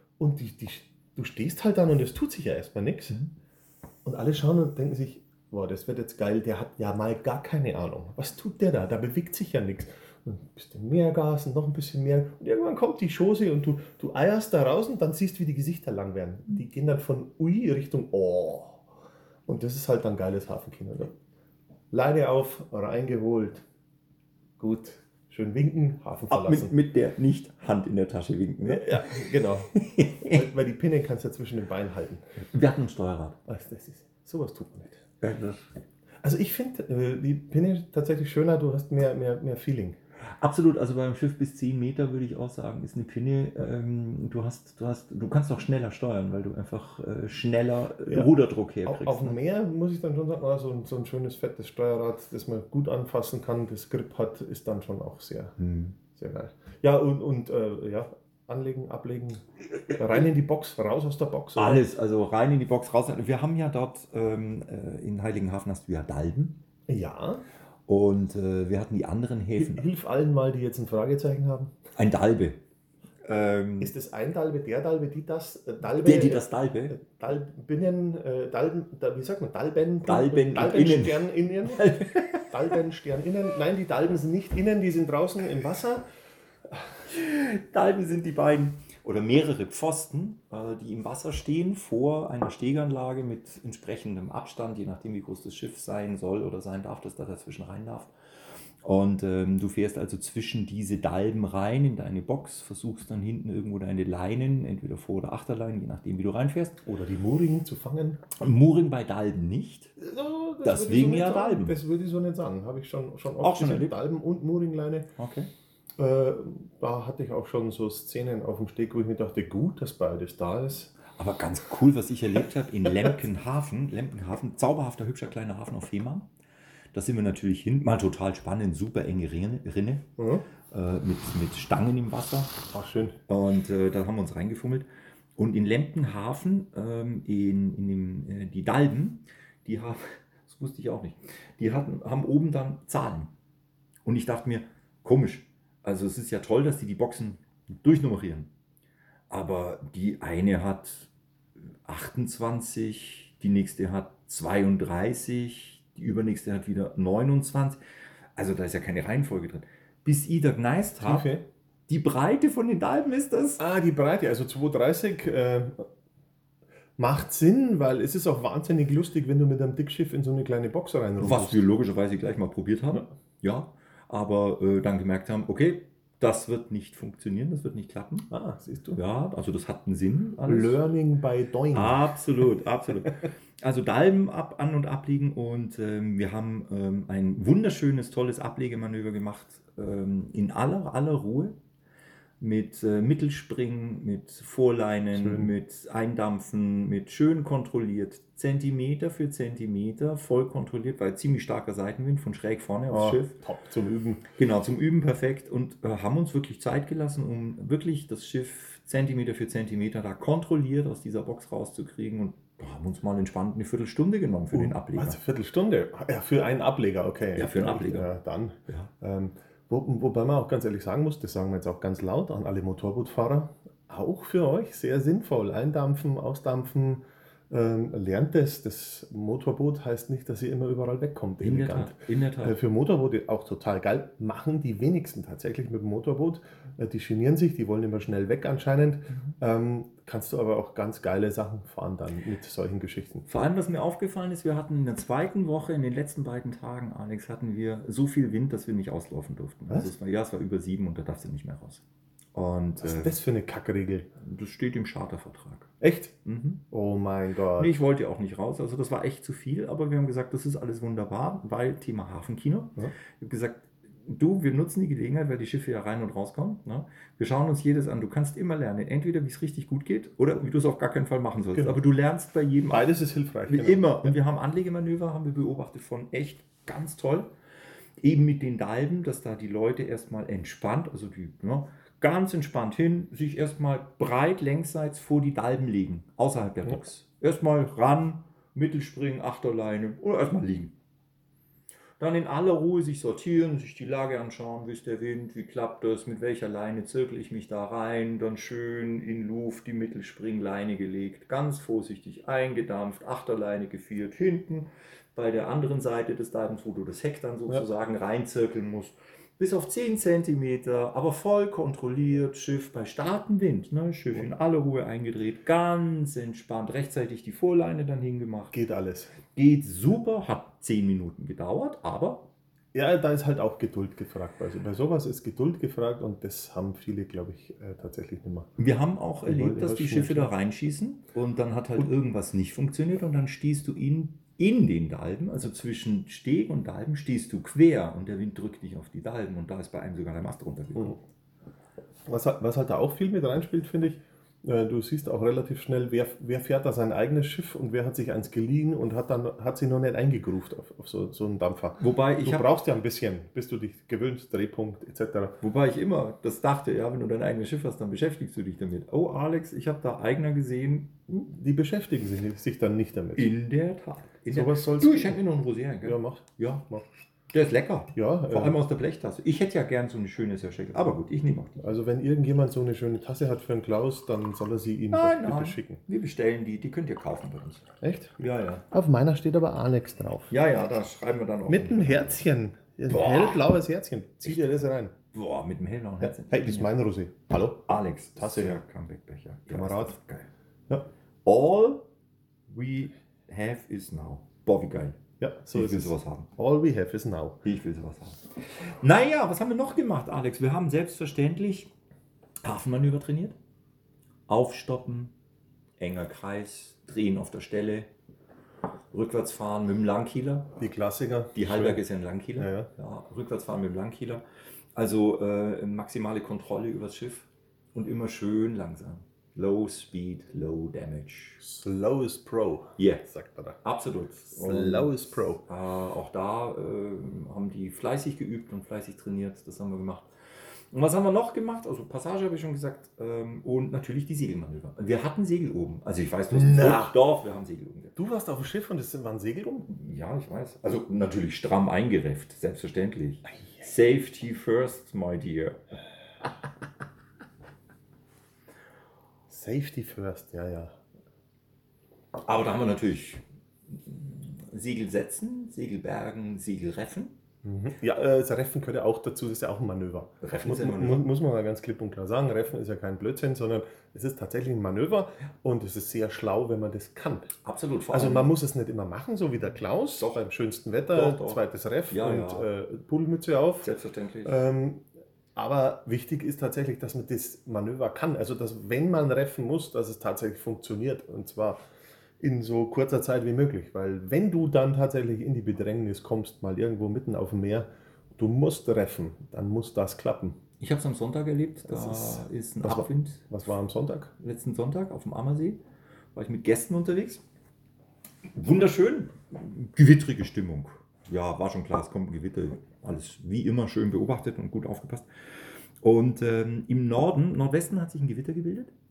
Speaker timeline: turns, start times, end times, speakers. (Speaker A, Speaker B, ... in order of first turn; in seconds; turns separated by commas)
Speaker A: 0.2-3.2, Speaker A: 4.0-18.8, Speaker A: 19.4-21.1, Speaker A: 21.9-23.6, Speaker A: 24.6-26.7, Speaker B: 26.3-30.4, Speaker A: 28.6-32.2, Speaker B: 32.5-33.4, Speaker A: 33.5-35.0, Speaker B: 35.2-35.6, Speaker A: 36.2-40.0, Speaker B: 40.4-49.4, Speaker A: 48.8-55.5, Speaker B: 55.6-56.0, Speaker A: 56.1-61.8, Speaker B: 61.5-66.6, Speaker A: 66.9-67.4, Speaker B: 67.9-69.8, Speaker A: 69.5-71.7, Speaker B: 72.0-72.6, Speaker B: 73.2-73.9, Speaker A: 73.8-86.0, Speaker B: 75.8-77.0, Speaker B: 80.0-82.5, Speaker B: 87.1-98.1, Speaker B: 98.8-106.8, Speaker A: 106.8-108.2, Speaker B: 108.4-110.0, Speaker A: 110.0-115.1, Speaker B: 110.6-111.8, Speaker B: 113.4-114.0, Speaker B: 115.2-115.5, Speaker A: 116.0-120.9, Speaker B: 121.2-126.3, Speaker B: 126.9-130.1, Speaker A: 130.2-130.4, Speaker B: 130.7-132.6, Speaker A: 132.7-133.2, Speaker B: 133.3-143.3, Speaker B: 144.0-148.5, Speaker B: 149.3-151.1, Speaker B: 151.8-157.8, Speaker B: 158.3-161.3, Speaker A: 161.0-161.4, Speaker B: 161.9-163.6, Speaker A: 163.6-165.9, Speaker A: 167.0-171.6, Speaker B: 171.2-178.3, Speaker A: 178.3-179.0, Speaker B: 178.9-180.8, Speaker A: 180.4-182.0, Speaker B: 181.7-191.5, Speaker B: 192.4-203.4, Speaker A: 195.1-195.5, Speaker A: 202.9-204.2, Speaker B: 204.3-215.2, Speaker A: 214.5-243.2, Speaker B: 217.3-218.1, Speaker B: 231.4-232.6, Speaker B: 243.3-251.8, Speaker B: 252.3-253.1, Speaker A: 252.8-254.1, Speaker B: 254.2-255.7, Speaker A: 255.8-256.1, Speaker B: 256.2-256.6, Speaker A: 256.7-257.8, Speaker B: 257.6-272.9, Speaker A: 271.5-271.8, Speaker A: 272.7-274.1, Speaker B: 273.4-277.3, Speaker B: 278.0-290.7, Speaker B: 292.0-318.6, Speaker A: 318.5-319.1, Speaker B: 319.3-322.3, Speaker A: 322.7-328.5, Speaker B: 328.6-341.0, Speaker A: 329.2-330.3, Speaker A: 342.1-355.4, Speaker B: 351.8-352.5, Speaker B: 355.4-361.1, Speaker A: 361.1-363.3, Speaker B: 363.1-366.6, Speaker A: 364.3-365.2, Speaker A: 365.8-366.8, Speaker B: 367.3-371.6, Speaker A: 367.9-368.6, Speaker A: 371.6-375.8, Speaker B: 374.9-378.6, Speaker A: 377.8-378.1, Speaker A: 378.7-380.3, Speaker B: 380.3-382.2, Speaker A: 381.5-384.9, Speaker B: 382.9-383.4, Speaker B: 385.1-386.7, Speaker A: 386.0-388.6, Speaker B: 387.7-390.3, Speaker A: 389.5-389.9, Speaker B: 391.2-391.8, Speaker B: 392.5-395.0, Speaker A: 395.2-397.4, Speaker B: 395.5-396.3, Speaker B: 397.4-401.7, Speaker B: 402.4-403.4, Speaker B: 404.3-405.1, Speaker B: 405.8-407.9, Speaker B: 408.9-410.5, Speaker A: 410.6-411.8, Speaker B: 411.3-414.2, Speaker A: 412.4-412.7, Speaker B: 414.7-421.4, Speaker A: 421.4-423.6, Speaker B: 422.8-430.1, Speaker A: 424.3-425.4, Speaker B: 430.7-438.0, Speaker A: 436.3-436.9, Speaker A: 437.9-439.7, Speaker B: 439.7-445.6, Speaker A: 449.3-450.8, Speaker B: 452.2-457.1, Speaker A: 457.4-467.3, Speaker B: 460.2-461.1, Speaker B: 467.4-468.3, Speaker A: 467.9-473.7, Speaker B: 470.9-472.5, Speaker B: 473.6-474.4, Speaker A: 474.2-481.6, Speaker A: 482.2-490.4, Speaker B: 490.6-493.3, Speaker A: 491.7-494.1, Speaker B: 494.2-495.6, Speaker B: 496.1-497.2, Speaker B: 498.3-505.1, Speaker B: 505.8-508.7